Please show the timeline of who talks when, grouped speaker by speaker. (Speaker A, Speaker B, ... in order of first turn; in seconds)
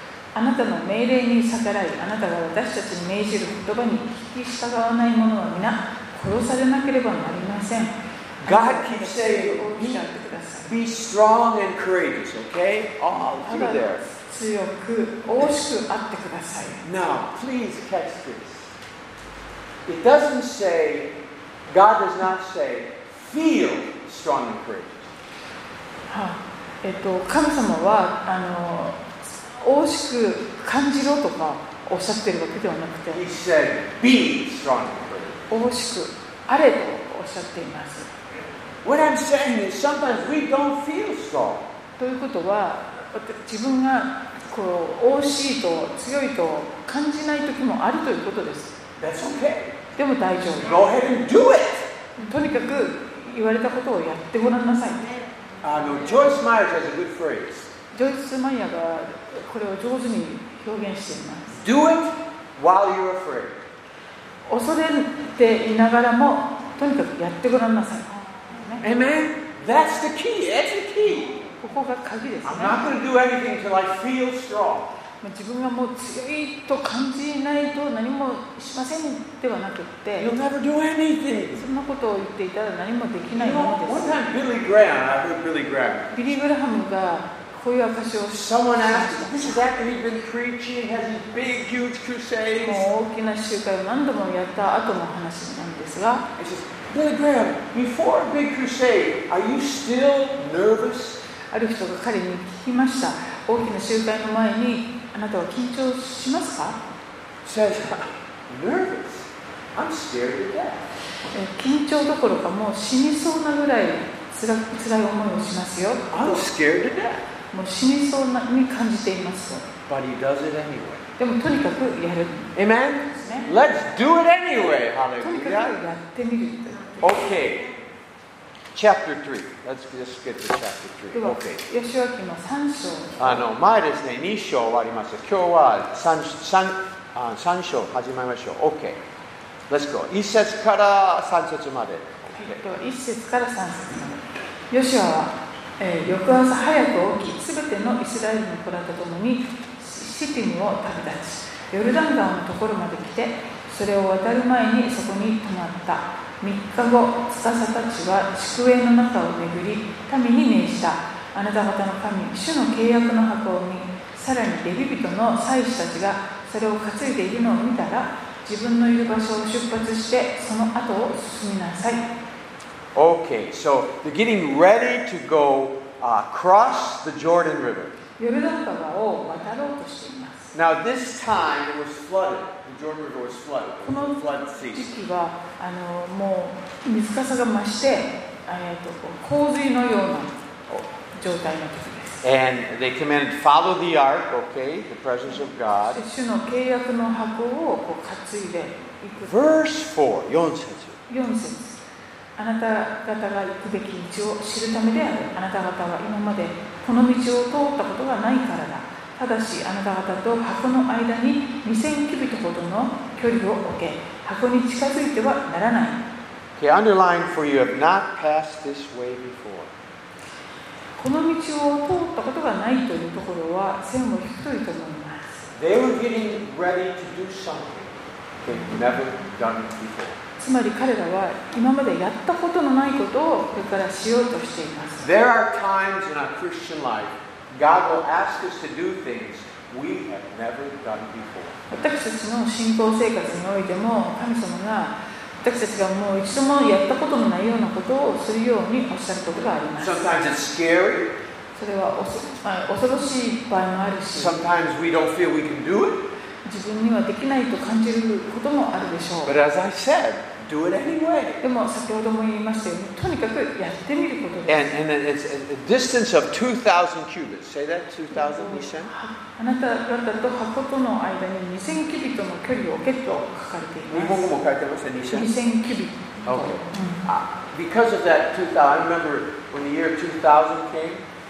Speaker A: 0.3-10.7, 13.1-16.8, 26.1-33.2, 35.5-38.1, 42.0-48.8, 50.0-50.8, 52.2-55.1, 57.9-61.6, 64.5-68.9, 71.5-72.9, 75.2-80.3, 81.6-84.2, 86.1-89.6, 92.6-96.3, 101.5-106.8, 111.3-116.5, 117.5-119.7, 121.2-122.5, 123.1-123.5, 125.2-127.2, 131.2-133.5, 142.3-172.1, 178.2-180.5, 183.8-184.2, 184.7-190.3, 191.1-192.2, 195.9-199.3, 201.1-201.8, 202.4-216.0, 221.0-225.5, 230.4-235.1, 241.7-250.0, 251.6-254.4, 256.4-259.3, 261.4-264.7, 268.1-274.3, 275.1-277.0
Speaker B: 8.4-10.1, 10.6-14.0, 16.8-18.7, 19.9-21.1, 21.7-25.1, 33.1-35.5, 38.8-41.6, 49.0-49.8, 50.6-51.9, 55.6-57.7, 61.5-63.6, 68.8-71.4, 72.4-74.9, 80.2-81.7, 83.3-86.3, 88.3-92.9, 96.4-101.2, 107.5-110.8, 116.1-117.2, 119.9-121.1, 122.5-125.8, 127.0-127.7, 128.7-131.7, 133.2-139.0, 139.7-142.6, 172.9-177.9, 180.5-184.9, 192.2-196.0, 199.2-201.0, 216.6-219.7, 225.6-230.2, 235.0-241.6, 249.8-251.1, 254.1-256.0, 259.2-261.4, 264.5-268.9, 273.9-275.3, 276.3-281.0